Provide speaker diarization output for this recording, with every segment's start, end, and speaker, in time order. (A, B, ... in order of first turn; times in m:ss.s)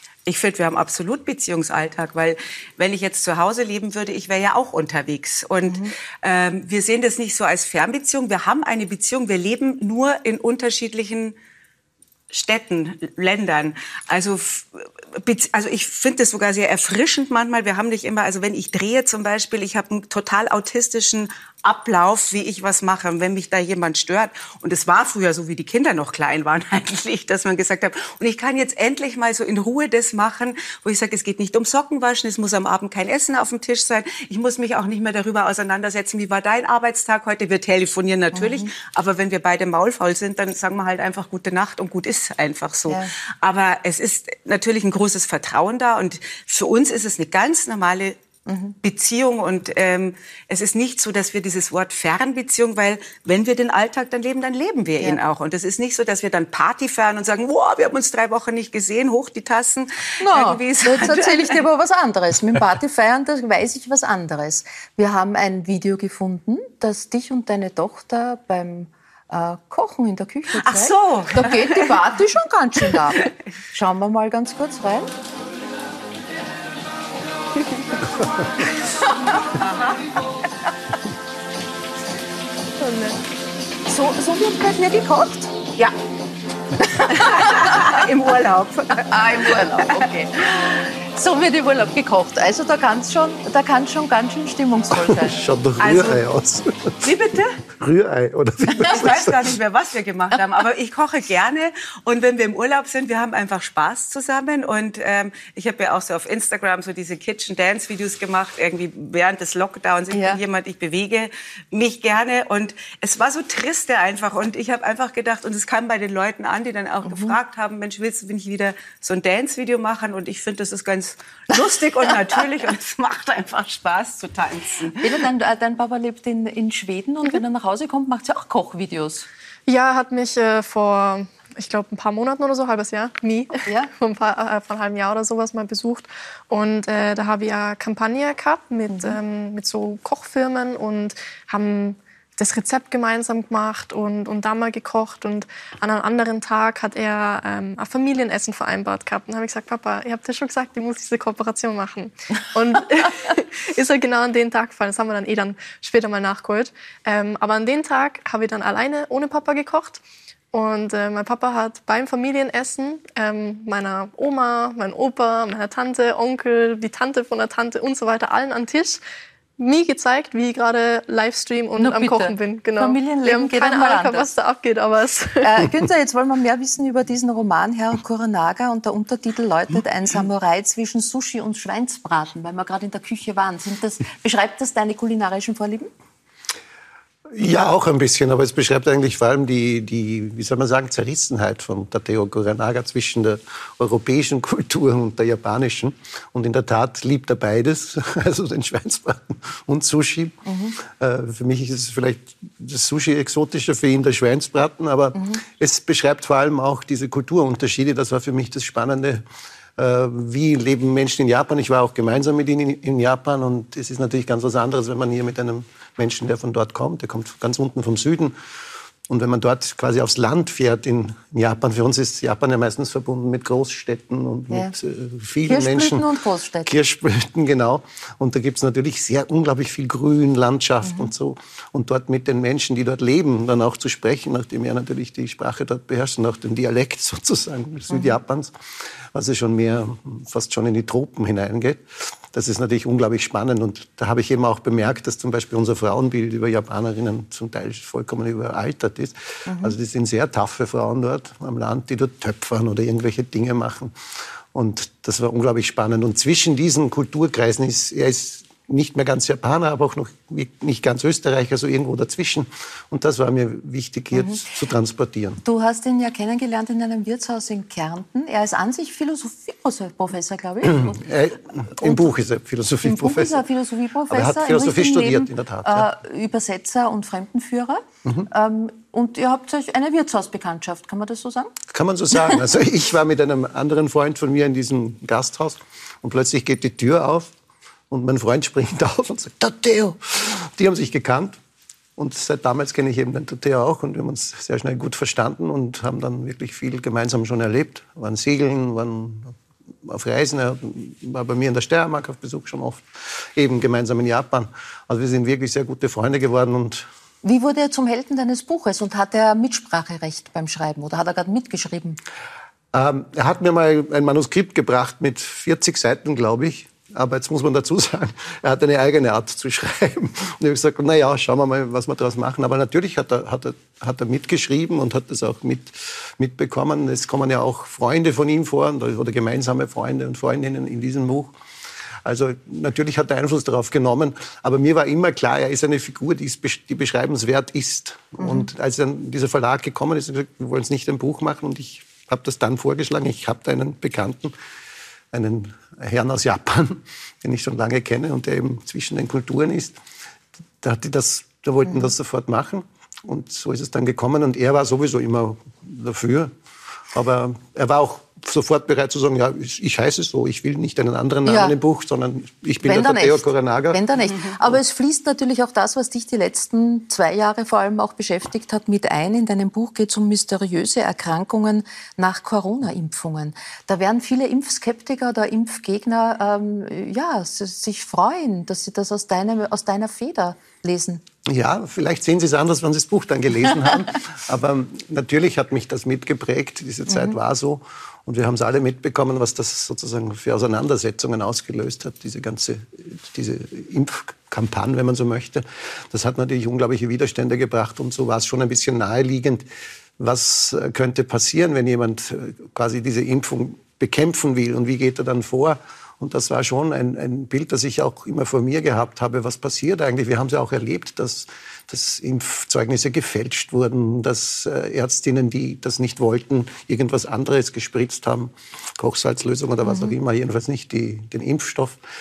0:00.3-0:11.4 A
0:05.7-0:05.9 B
0:12.3-0:48.2 A
0:38.3-0:38.7 B
0:48.5-0:48.8 B
0:48.8-1:01.6 A
1:00.2-1:15.1 B
1:10.6-1:12.0 A
1:19.6-1:19.8 A
1:22.8-1:23.2 C
1:23.9-1:25.5 B
1:27.0-1:30.1 A
1:27.0-1:27.9 B
1:29.0-1:35.4 B
1:34.9-1:37.1 D
1:35.8-1:36.2 A
1:37.0-1:37.6 A
1:37.8-1:39.5 D
1:38.7-2:05.2 A
1:50.1-1:50.4 B
1:57.0-1:57.4 B
2:05.0-2:09.3 B
2:09.7-2:40.0 C
2:18.9-2:19.2 B
2:40.5-2:49.0 C
2:49.6-2:55.5 C
2:51.8-2:54.3 B
2:55.4-3:05.9 B
3:07.3-3:29.2 D
3:20.5-3:20.8 B
3:25.2-3:25.4 B
3:29.8-3:38.4 D
3:39.1-3:46.1 D
3:45.5-3:46.8 B
3:46.6-3:58.5 D
3:50.8-3:51.1 B
3:59.1-4:14.0 D
4:09.5-4:09.8 B
4:14.5-4:25.4 D
4:24.2-4:24.4 B
4:25.4-4:31.0 B
4:30.6-4:33.4 D
4:31.8-4:32.1 B
4:32.8-4:41.5 B
4:34.1-4:35.9 D
4:41.7-4:47.3 D
4:47.9-4:51.4 D
4:52.0-5:06.9 D
5:07.2-5:12.0 B
5:12.7-5:31.3 D
5:32.0-5:44.3 D
5:38.2-5:38.5 B
5:45.1-5:49.8 D
5:50.6-5:56.3 D
5:51.7-5:51.9 B
5:56.9-6:03.8 D
6:01.2-6:01.6 B
6:02.6-6:21.0 B
6:21.3-6:39.5 D
6:26.9-6:27.2 B
6:40.0-7:01.8 D
6:59.7-6:59.9 B